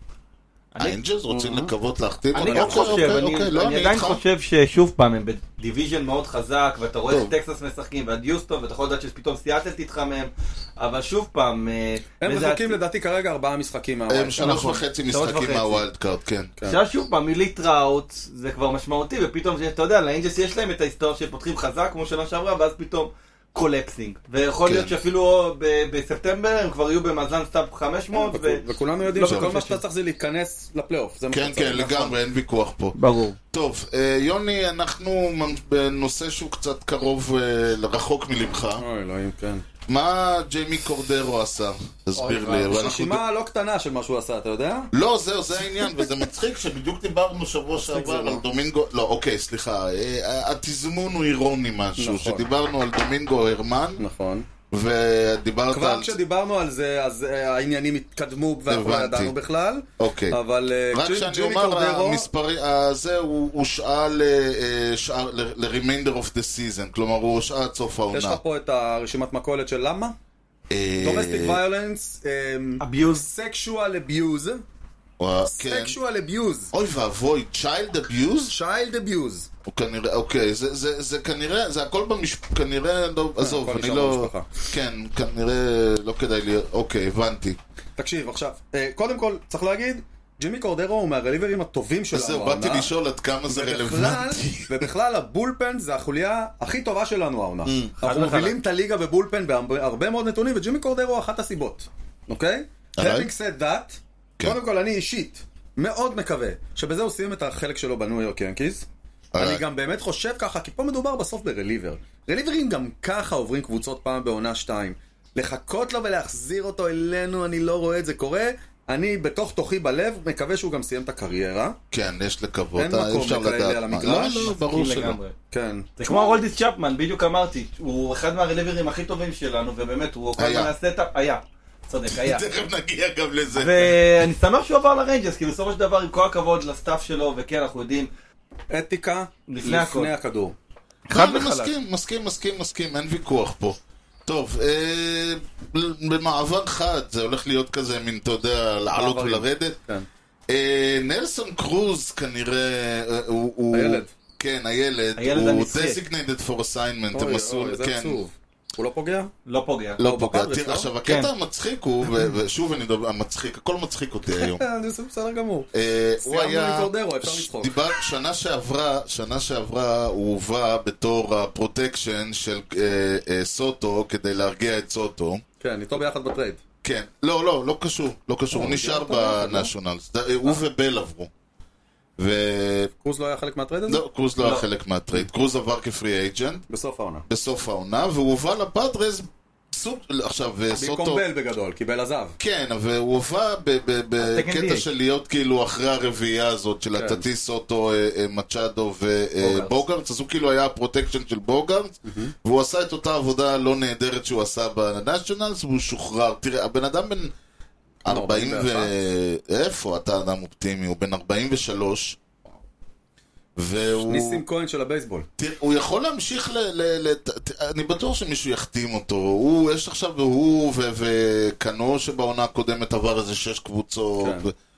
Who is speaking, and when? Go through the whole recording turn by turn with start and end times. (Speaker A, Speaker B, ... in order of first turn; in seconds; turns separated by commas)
Speaker A: 0.8-4.2, Speaker B: 1.3-1.7, Speaker C: 2.3-12.8, Speaker B: 2.4-3.2, Speaker B: 12.2-14.8, Speaker A: 14.1-16.5, Speaker C: 14.4-15.8, Speaker C: 16.6-29.8, Speaker A: 24.6-24.9, Speaker B: 28.1-32.2, Speaker A: 31.3-33.0, Speaker C: 32.9-33.4, Speaker A: 33.5-38.9, Speaker B: 38.8-39.6, Speaker A: 39.9-43.2, Speaker B: 42.2-44.9, Speaker C: 42.2-42.5, Speaker A: 44.9-54.0, Speaker B: 47.7-48.4, Speaker B: 52.0-52.5, Speaker B: 54.0-54.5, Speaker A: 54.7-56.1, Speaker B: 55.7-62.3, Speaker A: 58.7-59.3, Speaker A: 60.0-60.4, Speaker A: 60.9-68.4, Speaker B: 68.1-70.1, Speaker A: 70.7-71.6, Speaker B: 71.0-74.6, Speaker C: 72.8-73.3, Speaker A: 75.2-76.0, Speaker B: 75.4-76.7, Speaker A: 76.7-78.5, Speaker B: 78.5-79.5, Speaker A: 79.7-87.6, Speaker B: 83.4-84.5, Speaker B: 88.0-92.9, Speaker A: 92.1-94.8, Speaker B: 93.5-121.8, Speaker C: 97.7-98.6, Speaker A: 103.0-103.3, Speaker A: 109.3-109.6, Speaker A: 121.9-125.2, Speaker B: 122.8-124.5, Speaker C: 124.4-125.3, Speaker B: 125.5-126.4, Speaker C: 126.0-132.5, Speaker A: 130.3-130.7, Speaker A: 132.1-134.0, Speaker C: 133.5-138.1, Speaker B: 138.7-140.6, Speaker C: 139.5-140.1, Speaker C: 141.1-141.7, Speaker A: 141.1-149.8, Speaker B: 148.9-150.1, Speaker A: 150.5-158.2, Speaker B: 153.7-154.1, Speaker C: 155.2-156.0, Speaker B: 157.1-159.3, Speaker C: 159.4-160.0, Speaker A: 160.0-164.6, Speaker B: 160.0-160.9, Speaker C: 161.0-161.3, Speaker B: 164.4-165.7, Speaker A: 165.7-175.4, Speaker B: 166.2-167.8, Speaker B: 175.6-176.6, Speaker A: 176.8-181.3, Speaker B: 178.5-179.7, Speaker A: 182.2-182.9, Speaker B: 183.0-184.0, Speaker A: 183.9-186.6, Speaker C: 184.4-184.7, Speaker B: 186.7-187.2, Speaker A: 187.3-191.2, Speaker B: 190.7-192.4, Speaker A: 192.4-207.3, Speaker C: 194.2-194.8, Speaker B: 196.9-197.2, Speaker C: 199.4-199.7, Speaker B: 202.1-202.3, Speaker A: 208.0-212.2, Speaker B: 208.1-208.9, Speaker A: 213.6-214.4, Speaker B: 214.0-215.3, Speaker A: 215.4-224.5, Speaker B: 224.2-224.5